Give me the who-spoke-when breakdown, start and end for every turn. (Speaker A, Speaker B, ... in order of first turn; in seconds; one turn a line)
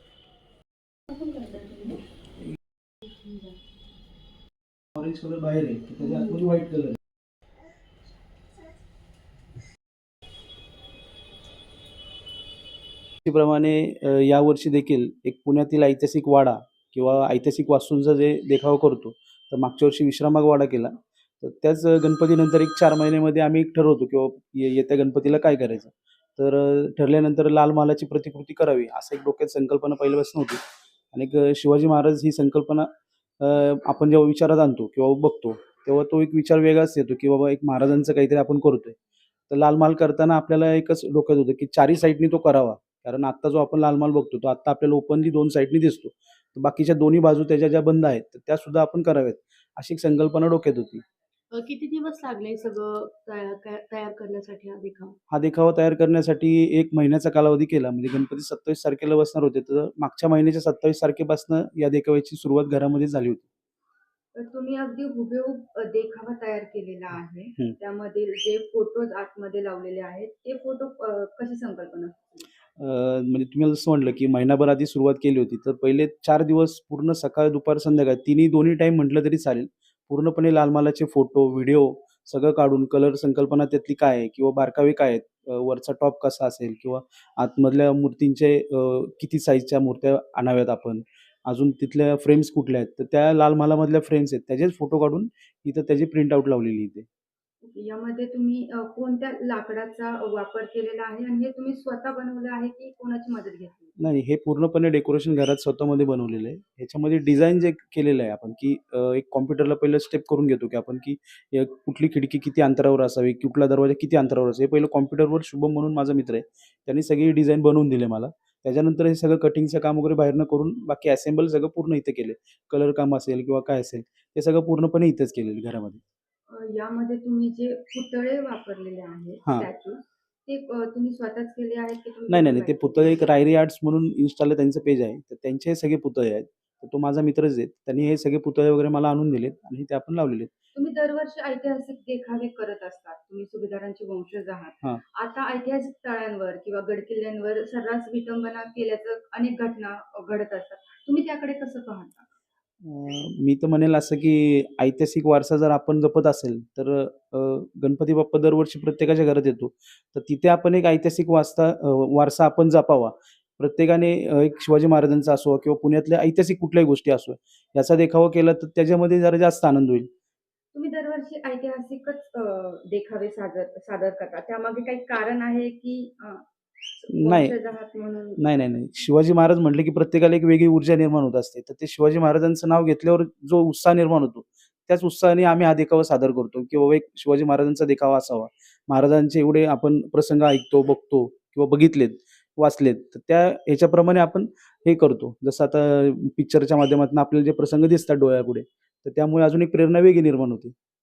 Speaker A: 1.1-2.0
Speaker A: 3.0-3.6
Speaker B: 4.9-7.0
Speaker A: 6.0-6.3
Speaker B: 13.2-30.6
Speaker B: 31.1-39.0
Speaker B: 39.5-51.0
Speaker A: 51.5-55.2
Speaker B: 55.3-63.4
Speaker C: 64.3-72.5
Speaker B: 72.8-97.0
Speaker C: 97.6-104.0
Speaker B: 104.0-126.0
Speaker C: 126.5-133.3
Speaker B: 132.3-140.5
Speaker C: 140.7-152.3
Speaker B: 152.8-170.1
Speaker C: 170.7-178.5
Speaker B: 177.1-177.5
Speaker B: 178.4-200.7